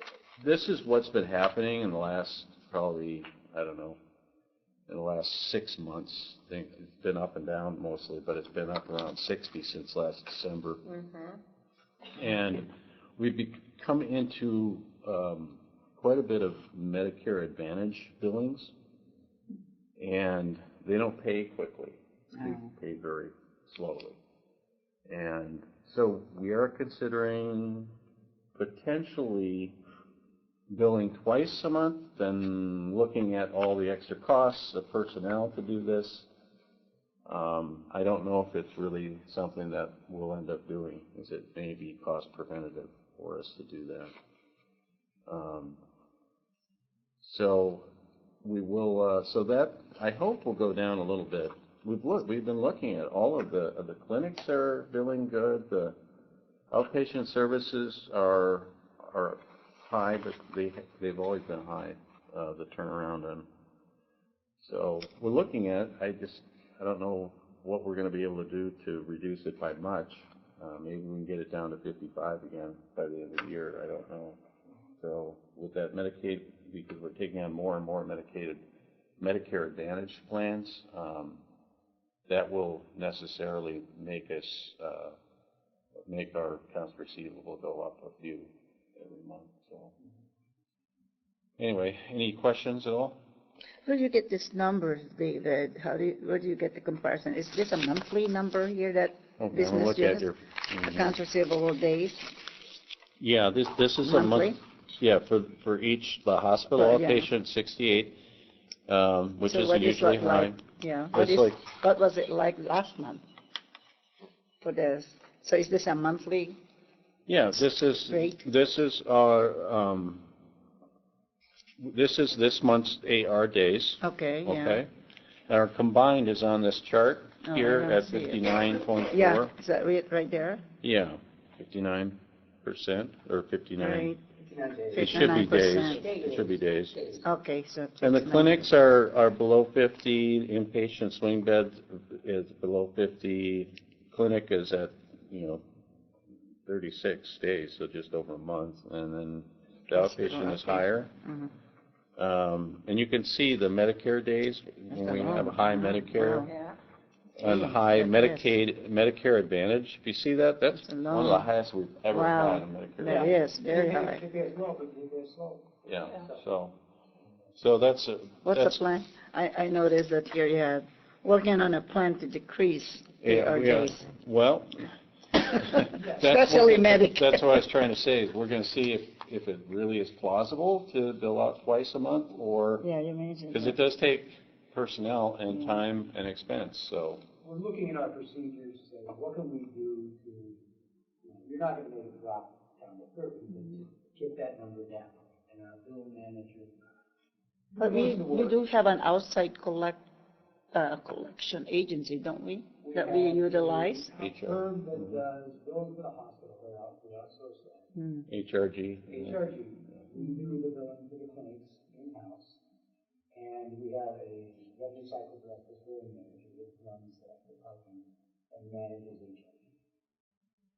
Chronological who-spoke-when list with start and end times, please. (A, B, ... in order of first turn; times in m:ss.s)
0:00.4-0:04.0 A
0:04.9-0:10.8 A
0:12.1-0:18.7 A
0:20.0-0:24.2 A
0:22.4-0:22.7 B
0:25.1-0:27.9 A
0:28.6-0:29.8 A
0:30.7-0:36.3 A
0:37.3-0:44.1 A
0:45.3-0:45.8 A
0:47.2-0:47.9 A
0:48.4-0:56.0 A
0:56.7-1:03.5 A
1:04.6-1:14.4 A
1:15.0-1:18.6 A
1:19.2-1:21.4 A
1:22.3-1:25.2 A
1:26.0-1:29.9 A
1:31.6-1:33.2 A
1:33.8-1:40.3 B
1:39.4-1:41.2 A
1:40.8-1:42.3 B
1:43.2-1:48.2 A
1:44.0-1:44.6 B
1:46.7-1:47.3 B
1:48.9-1:50.6 A
1:49.4-1:53.2 B
1:51.1-1:51.6 A
1:54.6-1:56.6 B
1:57.3-2:00.3 A
1:57.9-1:58.4 B
2:01.8-2:04.9 A
2:04.0-2:04.8 B
2:05.5-2:09.5 A
2:07.4-2:10.6 B
2:10.8-2:14.1 A
2:13.8-2:14.2 B
2:14.4-2:17.2 C
2:14.9-2:16.0 B
2:15.0-2:17.1 A
2:17.2-2:18.7 B
2:18.0-2:25.6 A
2:26.6-2:31.1 A
2:29.9-2:31.5 B
2:32.2-2:36.5 A
2:34.9-2:36.6 B
2:37.4-2:43.4 A
2:37.4-2:38.5 B
2:40.7-2:41.5 B
2:42.1-2:44.2 B
2:43.0-2:46.4 C
2:45.8-2:46.8 A
2:47.6-2:48.8 A
2:48.4-2:54.0 B
2:53.2-2:54.9 A
2:55.4-3:02.9 A
2:55.5-2:57.6 B
2:56.0-2:56.3 C
3:02.8-3:03.8 B
3:03.5-3:07.2 A
3:05.5-3:05.8 B
3:07.4-3:10.6 C
3:11.2-3:16.8 C
3:13.5-3:13.8 B
3:17.7-3:18.6 C
3:17.8-3:20.0 B
3:20.7-3:24.1 B
3:22.8-3:27.9 C
3:24.2-3:25.2 A
3:28.0-3:28.3 B
3:28.3-3:29.4 A
3:29.1-3:32.6 C
3:33.3-3:39.7 C